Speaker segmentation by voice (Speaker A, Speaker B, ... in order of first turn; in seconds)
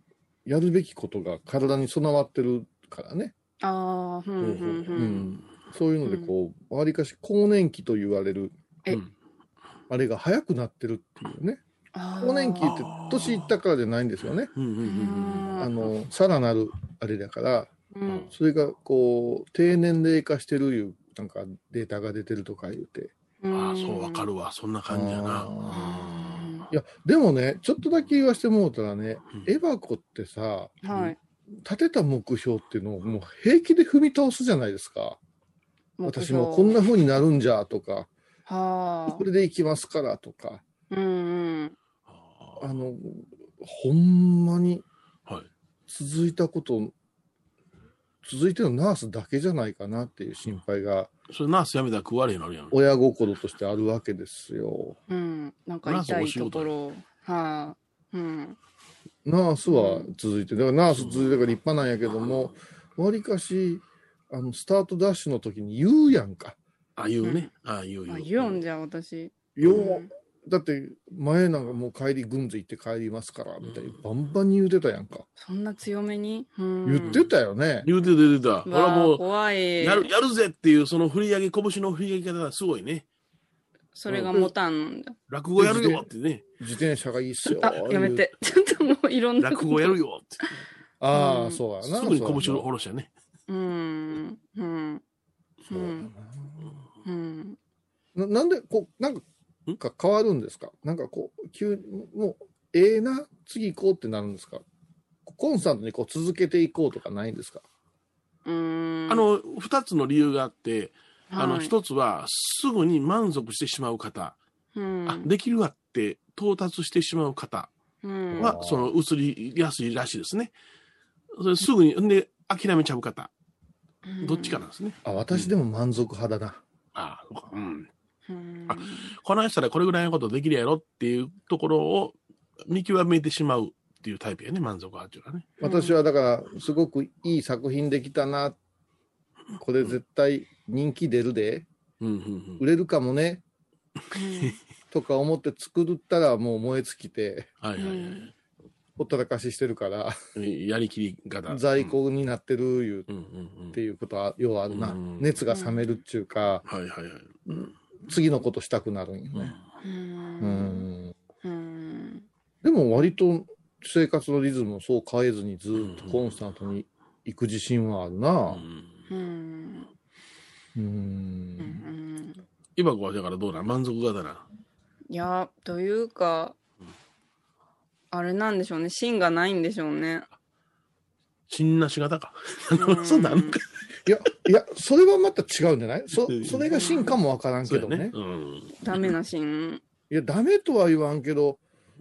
Speaker A: 0.5-3.3, 5.0-8.5, 9.9-11.6, 12.2-14.5, 15.6-17.7, 18.2-23.1, 24.9-25.9, 26.7-30.8, 31.5-35.2, 36.0-38.1, 39.1-40.6, 42.6-44.8, 45.9-46.9, 48.2-51.1, 52.7-55.0, 59.2-66.6, 69.5-75.2, 76.8-77.9, 85.6-88.3, 91.0-92.7, 95.7-96.7, 98.1-99.2, 99.8-104.6, 105.2-107.6, 118.3-118.9, 125.0-126.6, 135.6-138.6, 139.6-141.7, 142.6-143.4, 144.9-147.5, 149.0-150.2, 151.5-153.1, 153.7-156.6, 157.5-159.5, 160.4-161.1, 162.6-168.6, 170.7-171.8, 184.1-188.1, 190.1-191.6
Speaker B: 3.6-5.2, 6.0-6.3, 11.9-12.7, 14.8-15.9, 17.9-18.3, 23.4-24.3, 25.7-26.7, 30.8-31.1, 36.0-36.8, 38.5-39.2, 40.9-41.7, 55.1-58.6, 59.7-60.1, 67.2-67.5, 68.1-70.1, 75.4-77.2, 78.7-80.1, 83.9-85.1, 87.5-90.0, 91.1-91.6, 93.5-95.0, 95.7-96.1, 97.0-97.6, 108.4-109.2, 111.3-111.7, 114.7-115.3, 118.0-118.6, 124.0-124.6, 128.3-129.1, 135.6-136.0, 144.1-144.6, 147.8-148.3, 155.5-155.8, 159.8-160.9, 161.4-162.2, 169.1-169.9, 171.6-172.4, 175.1-176.5, 178.1-180.2, 182.8-183.6, 186.7-187.1, 188.8-189.8
Speaker C: 4.4-5.0, 12.6-13.5, 14.5-15.6, 23.5-26.6, 42.1-42.6, 51.3-52.8, 55.8-56.7, 61.0-61.4, 67.0-68.6, 77.8-79.2, 79.8-83.0, 84.1-84.4, 85.3-86.4, 89.4-90.5, 91.8-93.1, 109.1-114.4, 115.0-117.7, 118.4-120.5, 121.3-123.3, 124.2-125.5, 126.9-127.9, 128.7-132.1, 132.7-135.5, 142.0-142.6, 147.6-148.3, 150.3-151.9, 153.1-153.8, 154.7-155.3, 156.7-157.3, 165.8-166.2, 168.5-168.9, 172.8-174.4, 181.5-183.7, 186.3-186.9, 187.7-189.0